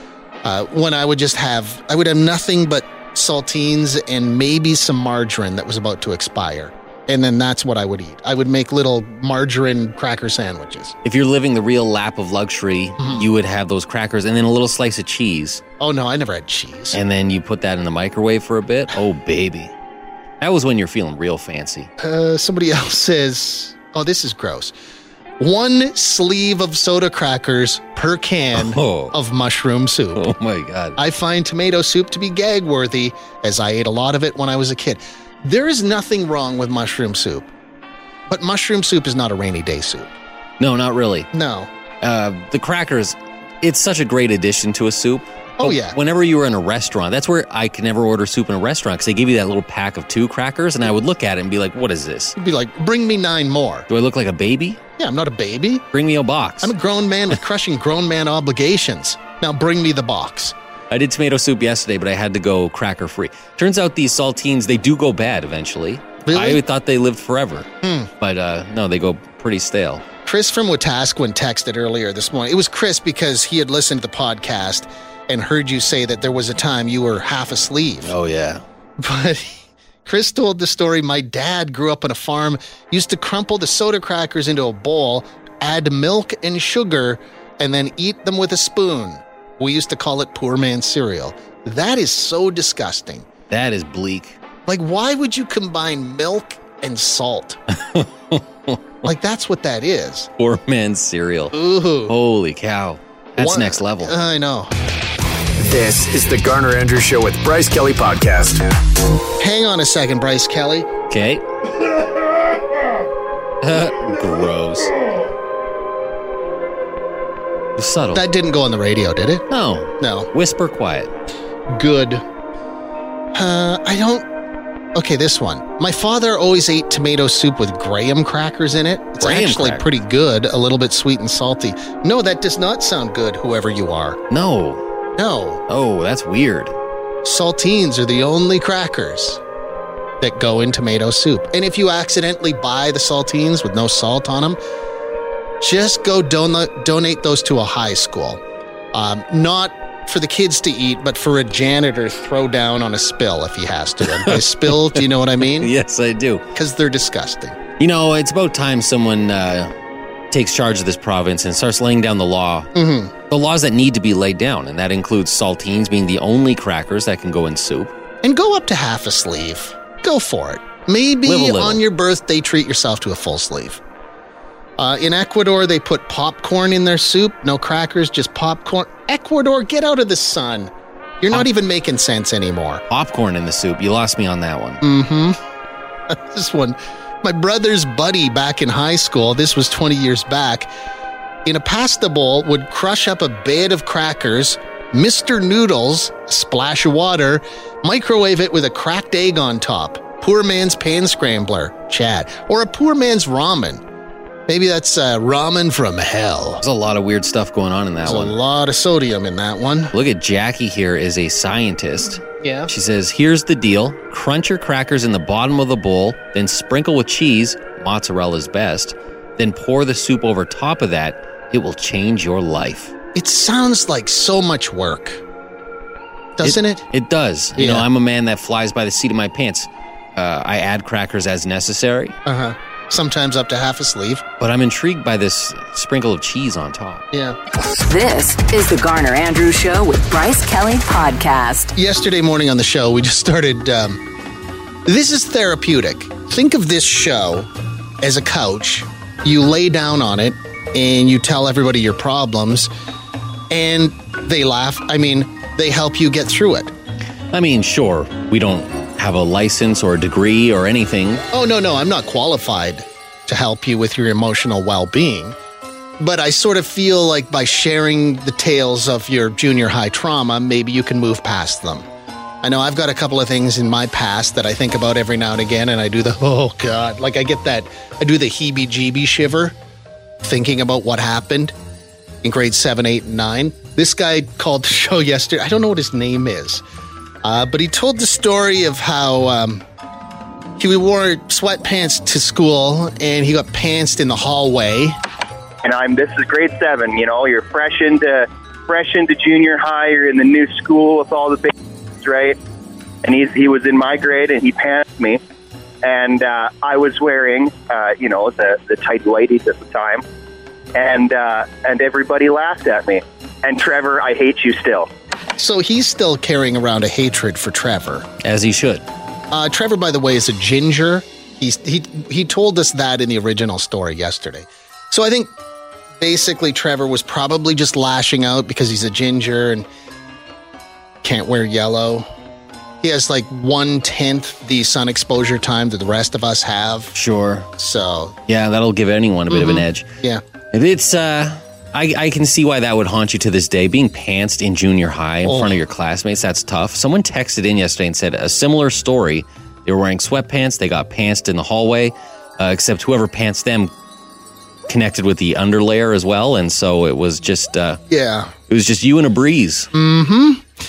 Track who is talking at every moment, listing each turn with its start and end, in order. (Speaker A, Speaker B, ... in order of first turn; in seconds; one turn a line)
Speaker A: 0.4-10.9
Speaker B: 11.0-15.6
Speaker A: 13.0-13.3
Speaker A: 15.8-17.0
Speaker B: 16.9-19.7
Speaker B: 20.4-21.9
Speaker A: 22.0-24.7
Speaker A: 25.4-30.3
Speaker B: 28.6-29.1
Speaker B: 30.1-31.0
Speaker A: 31.0-37.5
Speaker A: 38.3-40.1
Speaker B: 40.6-41.3
Speaker A: 41.3-41.7
Speaker B: 42.0-52.4
Speaker A: 45.6-46.0
Speaker A: 52.4-53.9
Speaker B: 53.9-54.8
Speaker A: 55.0-55.9
Speaker B: 55.9-56.7
Speaker A: 56.6-60.5
Speaker B: 60.9-67.7
Speaker A: 66.2-66.6
Speaker A: 67.8-68.1
Speaker B: 68.2-70.0
Speaker A: 70.2-78.1
Speaker B: 78.0-78.6
Speaker A: 79.0-93.3
Speaker B: 93.5-94.4
Speaker A: 94.7-97.6
Speaker B: 97.7-98.8
Speaker A: 99.0-100.3
Speaker B: 100.4-101.5
Speaker A: 101.5-102.1
Speaker B: 102.1-104.1
Speaker A: 103.4-104.7
Speaker C: 105.6-108.6
Speaker A: 109.4-110.9
Speaker B: 111.1-111.4
Speaker B: 113.6-114.9
Speaker B: 117.8-118.2
Speaker A: 118.1-119.4
Speaker B: 119.5-121.1
Speaker A: 120.0-120.3
Speaker A: 121.7-122.2
Speaker A: 123.3-124.2
Speaker A: 124.9-134.2
Speaker B: 129.2-129.9
Speaker B: 134.3-134.8
Speaker A: 135.2-135.6
Speaker B: 135.7-136.7
Speaker A: 137.2-139.4
Speaker A: 140.2-144.6
Speaker A: 145.6-148.4
Speaker A: 148.9-155.7
Speaker B: 154.1-155.0
Speaker B: 155.5-156.4
Speaker A: 156.5-157.6
Speaker B: 157.8-159.7
Speaker B: 160.3-162.7
Speaker A: 162.7-163.1
Speaker B: 163.3-167.9
Speaker A: 168.2-173.8
Speaker B: 171.2-171.8
Speaker A: 174.8-182.8
Speaker B: 182.9-184.8
Speaker A: 184.8-185.4
Speaker A: 186.1-190.7
Speaker A: 191.4-203.8
Speaker A: 204.5-206.6
Speaker B: 206.6-208.3
Speaker A: 208.0-209.9
Speaker B: 209.9-222.9
Speaker A: 212.4-212.7
Speaker A: 223.1-225.2
Speaker A: 226.3-226.8
Speaker B: 226.4-232.2
Speaker A: 227.6-227.9
Speaker A: 232.2-234.2
Speaker B: 234.4-237.0
Speaker A: 237.1-237.4
Speaker D: 237.7-241.7
Speaker A: 241.7-244.0
Speaker A: 244.8-247.5
Speaker A: 248.0-252.7
Speaker A: 253.5-256.7
Speaker B: 257.3-261.2
Speaker A: 261.3-265.4
Speaker A: 266.0-271.9
Speaker A: 272.4-279.6
Speaker A: 280.2-281.5
Speaker A: 282.2-286.6
Speaker A: 287.2-289.6
Speaker A: 290.6-295.0
Speaker E: 295.6-302.4
Speaker E: 303.0-305.2
Speaker E: 305.8-310.0
Speaker E: 310.7-314.9
Speaker A: 315.4-318.1
Speaker B: 318.2-318.8
Speaker A: 319.3-325.3
Speaker A: 326.0-329.7
Speaker A: 331.0-332.1
Speaker A: 332.8-336.9
Speaker B: 336.9-337.5
Speaker A: 337.6-338.1
Speaker B: 338.3-339.9
Speaker A: 339.3-340.2
Speaker B: 340.5-353.7
Speaker A: 345.2-345.6
Speaker B: 354.7-357.8
Speaker A: 357.9-358.3
Speaker B: 358.5-359.7
Speaker A: 359.7-360.4